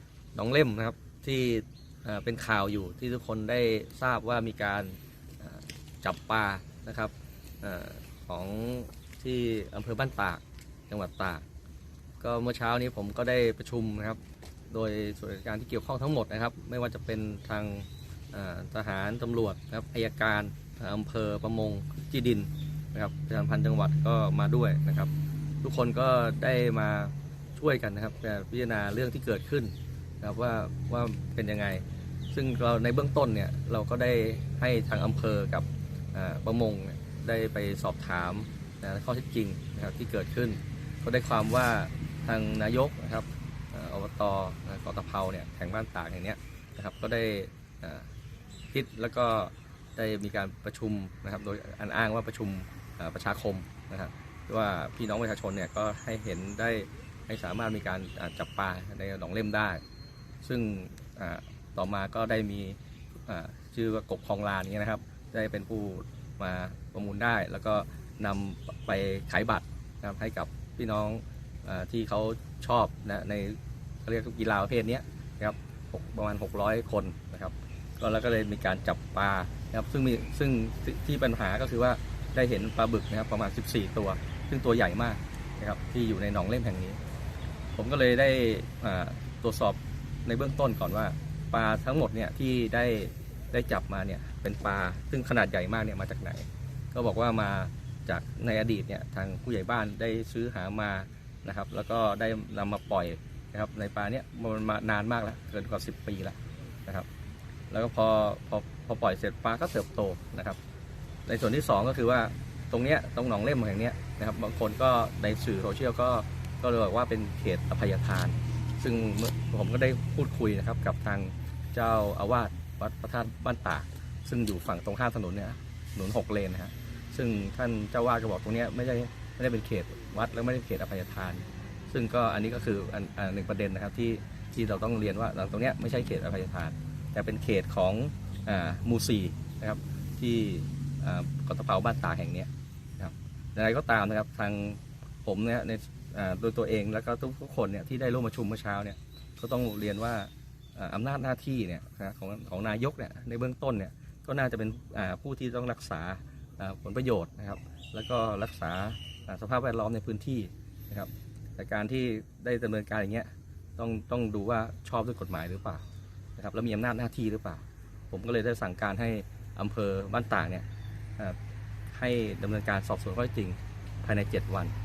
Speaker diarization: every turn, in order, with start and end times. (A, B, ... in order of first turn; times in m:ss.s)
0:00.4-0:11.4 A
0:12.2-0:25.1 A
0:25.6-0:48.1 A
0:48.7-0:59.8 A
1:00.4-1:27.0 A
1:27.8-1:47.1 A
1:47.7-1:50.6 A
1:51.3-2:45.9 A
2:46.4-2:50.7 A
2:51.9-2:54.7 A